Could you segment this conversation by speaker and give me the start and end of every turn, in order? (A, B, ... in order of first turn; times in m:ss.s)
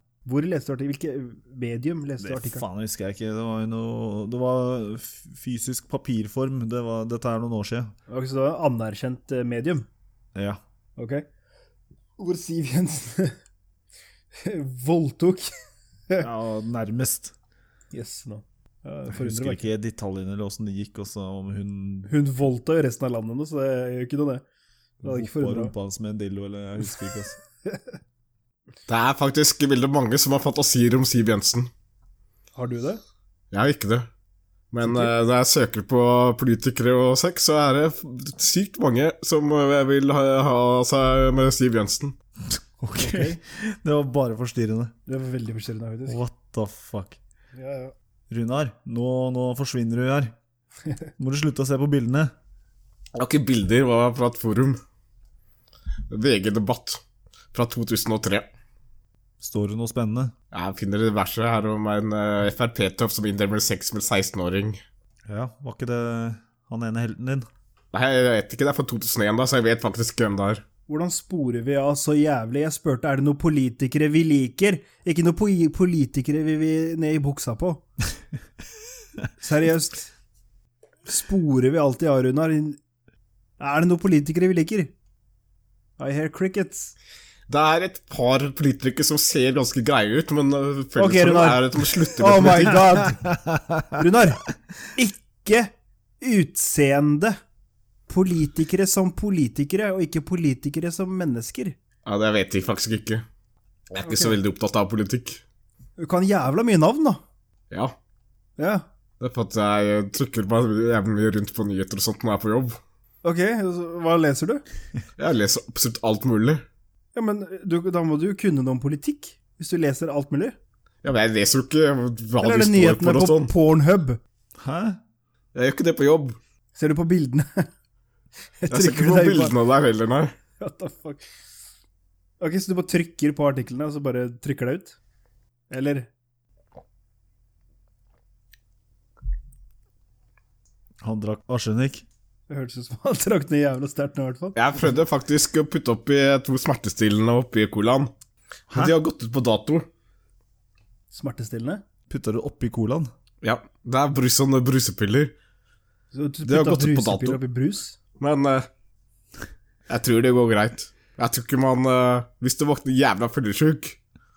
0:00.2-0:02.6 A
0:02.2-0:07.9 B
0:08.1-0:09.9 A
0:10.4-0:10.6 B
0:11.0-0:11.2 A
0:12.2-0:13.4 A
0:14.4-0:15.5 A
0:16.2-0:17.3 B
0:17.9-0:19.7 A
0:19.1-0:22.1 B
0:22.1-0:24.4 A
0:25.0-0:25.7 A
0:25.0-0:27.4 B
0:28.9-0:31.7 C
0:32.6-0:33.0 A
0:33.5-0:34.1 C
0:34.7-0:42.2 C
0:34.8-0:35.1 A
0:42.5-0:44.9 B
0:43.0-0:43.4 A
0:45.1-0:46.2 A
0:46.1-0:47.2 B
0:47.5-0:47.9 A
0:48.3-0:50.4 B
0:51.2-0:52.3 B
0:53.2-0:54.8 C
0:56.1-0:57.0 C
0:57.5-0:58.5 C
0:59.4-1:00.3 B
1:00.5-1:04.8 C
1:05.3-1:07.5 B
1:07.9-1:10.6 C
1:10.9-1:17.8 A
1:19.4-1:20.1 A
1:21.1-1:22.8 A
1:23.6-1:24.9 A
1:26.0-1:26.9 A
1:27.5-1:32.9 C
1:31.0-1:33.3 A
1:33.2-1:34.0 B
1:33.9-1:34.4 A
1:35.0-1:37.4 A
1:38.1-1:41.8 A
1:42.1-1:43.2 C
1:43.9-1:45.4 C
1:44.0-1:44.4 A
1:46.0-1:47.2 A
1:48.6-1:48.8 A
1:49.2-1:52.8 C
1:53.2-1:54.6 A
1:55.2-1:56.6 C
1:57.2-2:00.6 A
2:01.0-2:03.5 C
2:02.4-2:04.2 A
2:04.6-2:05.0 B
2:05.5-2:06.4 C
2:06.8-2:07.7 A
2:08.6-2:09.6 A
2:08.7-2:10.3 C
2:10.6-2:11.2 A
2:12.4-2:15.0 A
2:15.7-2:16.1 A
2:21.0-2:22.0 B
2:22.5-2:24.6 A
2:24.6-2:28.1 C
2:28.7-2:29.0 B
2:28.7-2:29.9 C
2:31.1-2:31.8 A
2:32.1-2:33.1 B
2:33.4-2:35.3 C
2:36.1-2:38.0 A
2:36.4-2:37.4 C
2:38.2-2:38.7 C
2:39.9-2:44.0 C